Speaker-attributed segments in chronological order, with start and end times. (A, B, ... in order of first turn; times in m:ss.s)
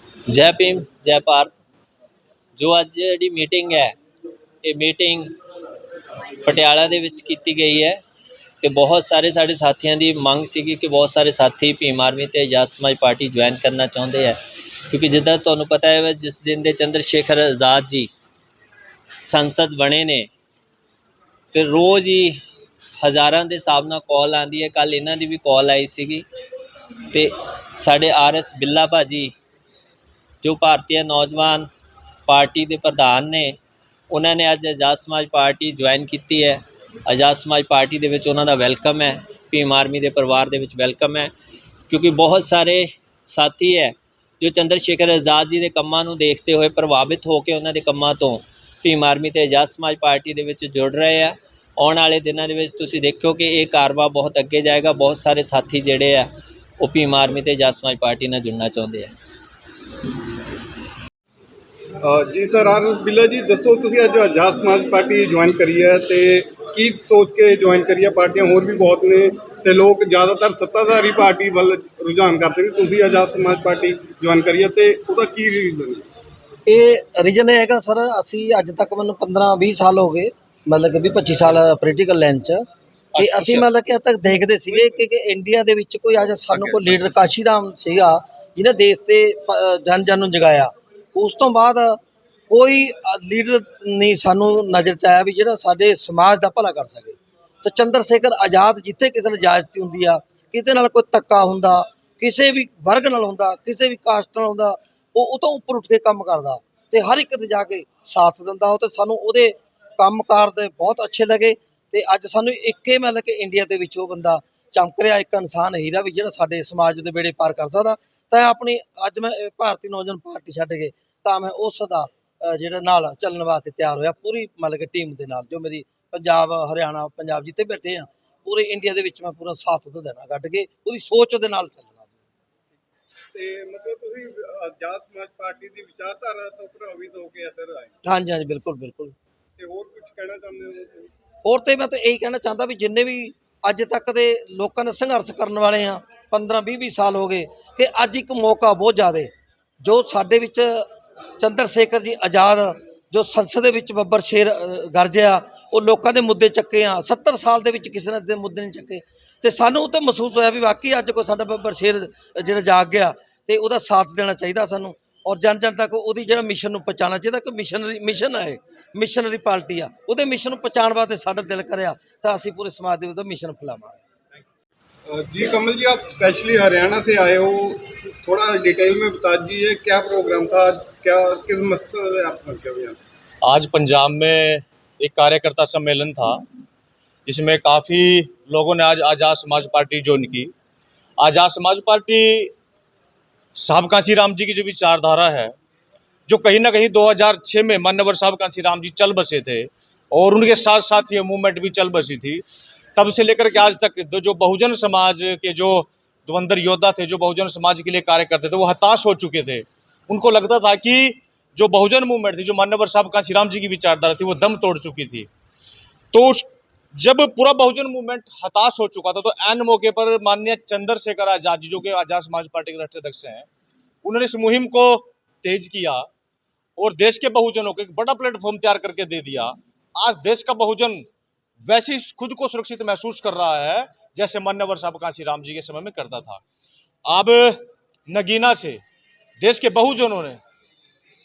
0:00.3-0:01.6 A
0:02.6-0:03.9 A
0:04.6-0:05.3 A
0:06.4-0:08.0 A
0:08.6-0:14.4 A
0:14.9-0:18.1 A
0:19.2-0:20.3 A
0:21.5-0:22.4 A
0:23.0-0:26.2 A
0:27.1-0:29.3 A
0:30.4-0:31.7 A
0:32.3-0:33.6 A
0:34.1-0:41.3 A
0:41.9-0:56.3 A
0:56.8-0:59.1 A
1:02.0-1:16.1 B
1:16.7-1:22.6 C
1:23.1-1:23.7 D
1:23.2-1:32.0 C
1:26.5-1:27.0 D
1:32.5-2:12.1 C
2:13.3-2:18.0 B
2:18.0-2:19.2 C
2:19.6-2:21.1 B
2:21.4-2:29.3 C
2:29.8-2:30.9 C
2:31.4-2:54.0 C
2:55.1-3:03.0 B
3:03.4-3:06.5 D
3:07.3-3:10.5 D
3:11.2-3:12.6 D
3:13.6-3:15.5 D
3:16.3-3:22.4 D
3:23.0-3:35.3 D
3:36.1-3:36.5 D
3:37.0-3:43.5 D
3:44.0-3:46.1 D
3:46.8-3:51.1 D
3:51.7-3:56.4 D
3:57.1-3:58.8 D
3:59.4-4:00.4 D